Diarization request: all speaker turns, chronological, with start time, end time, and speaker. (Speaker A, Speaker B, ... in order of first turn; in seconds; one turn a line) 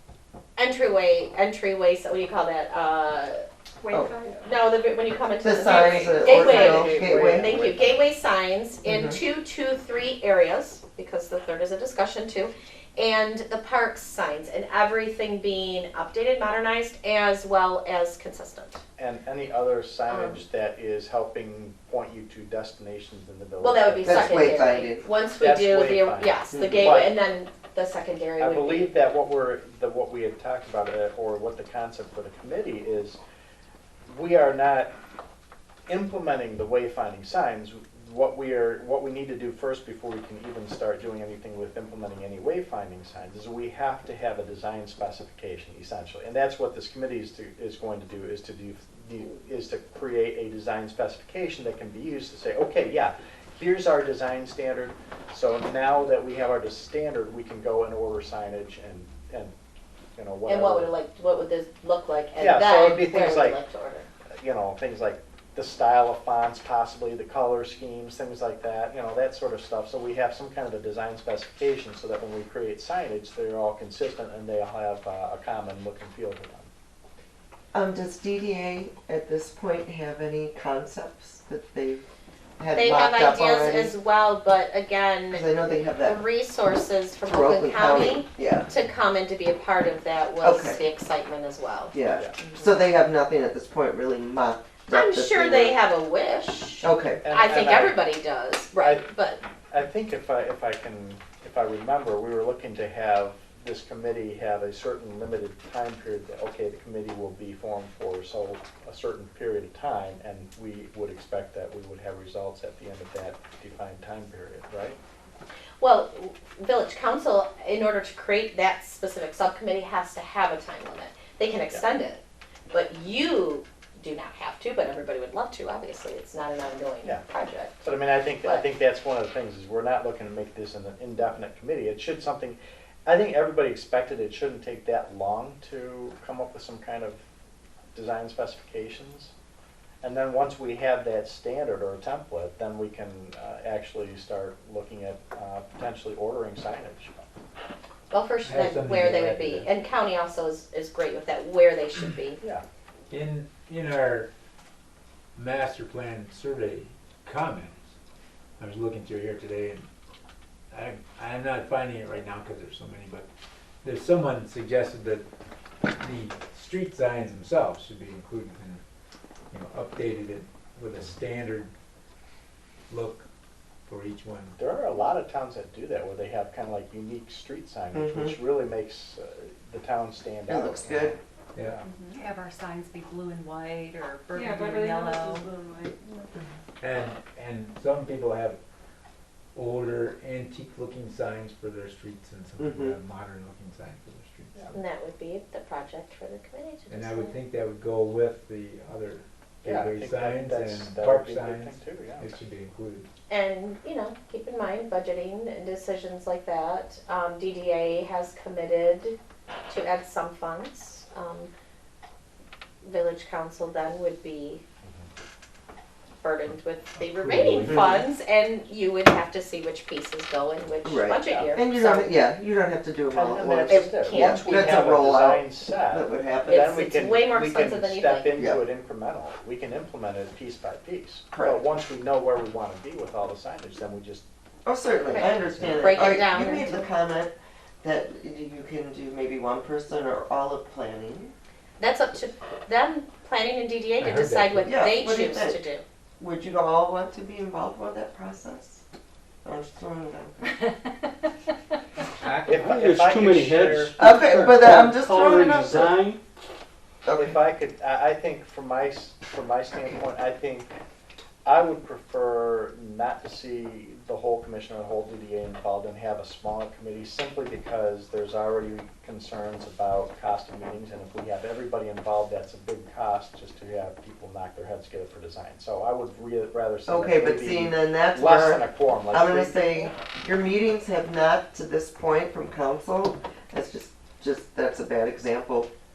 Speaker A: 0.6-3.4
Speaker B: 3.8-4.5
Speaker A: 4.4-18.8
Speaker C: 5.4-7.5
Speaker D: 5.7-8.1
Speaker C: 8.9-9.2
Speaker D: 19.0-24.8
Speaker A: 20.1-20.4
Speaker A: 23.6-28.9
Speaker C: 24.1-25.1
Speaker D: 25.4-27.1
Speaker C: 26.5-26.9
Speaker D: 28.4-33.2
Speaker D: 34.1-34.9
Speaker D: 35.9-59.5
Speaker D: 60.2-60.9
Speaker A: 60.5-64.1
Speaker D: 62.4-63.6
Speaker D: 64.4-76.7
Speaker C: 77.7-82.0
Speaker C: 82.6-84.0
Speaker A: 82.8-92.6
Speaker C: 85.3-86.2
Speaker C: 87.3-88.7
Speaker C: 90.4-90.8
Speaker C: 91.9-95.8
Speaker A: 94.9-99.4
Speaker C: 96.8-97.2
Speaker D: 97.2-98.0
Speaker D: 98.8-99.1
Speaker D: 99.7-115.0
Speaker A: 115.8-127.9
Speaker D: 127.8-137.2
Speaker D: 137.9-139.3
Speaker D: 140.0-147.3
Speaker A: 148.1-152.4
Speaker E: 148.4-149.7
Speaker E: 153.1-154.3
Speaker E: 155.3-157.8
Speaker E: 158.6-159.9
Speaker E: 160.7-163.3
Speaker E: 163.8-165.2
Speaker E: 166.0-168.8
Speaker E: 169.5-171.7
Speaker E: 172.9-173.3
Speaker E: 173.9-174.6
Speaker D: 174.6-181.2
Speaker C: 177.9-178.4
Speaker C: 180.5-181.2
Speaker E: 181.6-181.8
Speaker F: 181.9-185.6
Speaker B: 184.3-186.2
Speaker E: 186.8-188.6
Speaker E: 189.5-194.8
Speaker C: 192.6-193.0
Speaker A: 194.7-197.4
Speaker E: 196.9-203.1
Speaker D: 199.6-202.4
Speaker A: 203.3-209.2
Speaker A: 209.7-211.5
Speaker A: 212.8-214.6
Speaker A: 216.2-222.2
Speaker E: 217.0-217.9
Speaker C: 217.7-218.0
Speaker C: 220.8-226.7
Speaker D: 221.3-221.5
Speaker D: 223.1-234.2
Speaker A: 223.4-225.0
Speaker A: 226.5-228.3
Speaker C: 228.4-228.6
Speaker C: 231.3-231.6
Speaker C: 234.7-241.3
Speaker D: 235.1-236.1
Speaker E: 235.2-235.9
Speaker A: 235.7-236.7
Speaker A: 241.8-245.8
Speaker E: 244.0-244.7
Speaker C: 244.7-245.6
Speaker C: 246.2-248.8
Speaker C: 249.4-250.4
Speaker E: 252.2-252.8
Speaker D: 252.5-254.6
Speaker G: 252.5-256.2
Speaker C: 254.0-256.0
Speaker C: 257.1-257.4
Speaker D: 257.1-260.7
Speaker D: 261.4-279.9
Speaker C: 276.9-285.7